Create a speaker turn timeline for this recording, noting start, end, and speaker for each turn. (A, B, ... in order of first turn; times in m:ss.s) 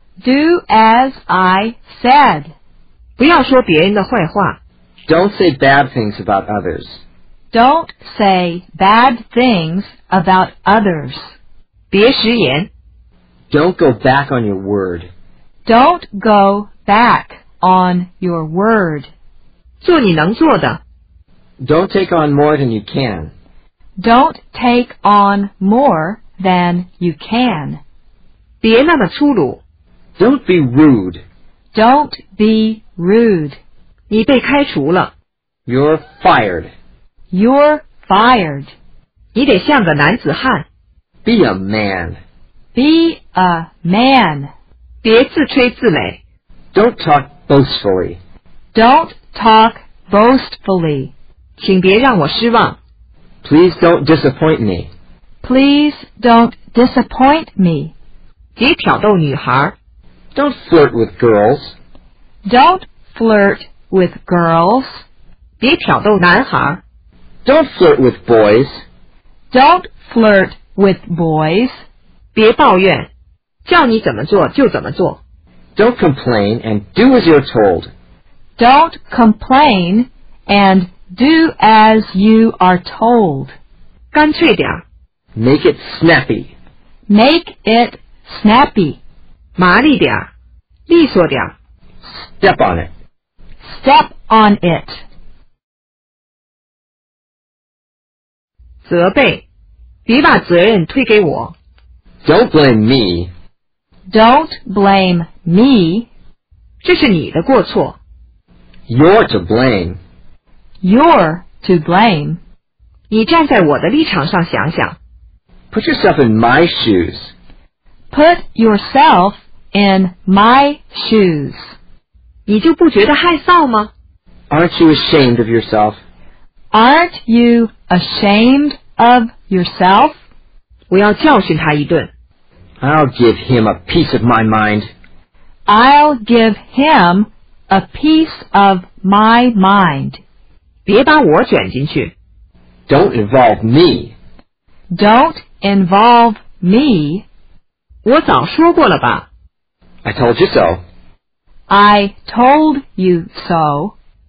0:00.2-0:02.5 A
0:03.2-0:04.6 B
0:05.1-0:07.0 C
0:07.5-0:11.3 A
0:11.9-0:12.7 B
0:13.5-0:15.1 C
0:15.7-0:19.1 A
0:19.8-0:20.8 B
0:21.6-0:23.3 C
0:24.0-0:27.8 A
0:28.6-0:29.6 B
0:30.2-0:31.2 C
0:31.7-0:33.6 A
0:34.1-0:35.1 B
0:35.7-0:36.7 C
0:37.3-0:38.7 A
0:39.3-0:40.7 B
0:41.2-0:42.2 C
0:42.8-0:44.5 A
0:45.0-0:46.2 B
0:46.7-0:48.2 C
0:48.8-0:51.1 A
0:51.6-0:52.8 B
0:53.4-0:54.9 C
0:55.4-0:57.9 A
0:58.6-0:59.8 B
1:00.3-1:01.8 C
1:02.5-1:05.0 A
1:05.6-1:06.8 B
1:07.4-1:08.8 C
1:09.5-1:11.7 A
1:12.4-1:13.1 B
1:13.6-1:15.2 B
1:15.8-1:17.9 C
1:18.6-1:23.5 A
1:24.1-1:24.8 B
1:25.4-1:26.5 C
1:27.1-1:29.0 A
1:29.6-1:30.3 B
1:30.9-1:31.5 B
1:32.0-1:32.9 C
1:33.6-1:35.0 A
1:38.8-1:39.4 B
1:40.1-1:41.6 B
1:42.2-1:43.3 C
1:44.1-1:46.1 A
1:46.8-1:48.0 B
1:48.9-1:50.0 C
1:50.8-1:52.4 A
1:53.1-1:55.0 B
1:55.7-1:57.3 C
1:58.1-2:01.6 A
2:02.5-2:03.9 B
2:04.5-2:06.0 C
2:06.7-2:10.2 A
2:10.9-2:12.1 B
2:12.8-2:14.9 C
2:15.7-2:20.2 A
2:20.8-2:22.1 B
2:22.9-2:24.2 C
2:24.9-2:27.3 A
2:28.0-2:29.3 B
2:30.0-2:30.8 C
2:31.7-2:34.0 A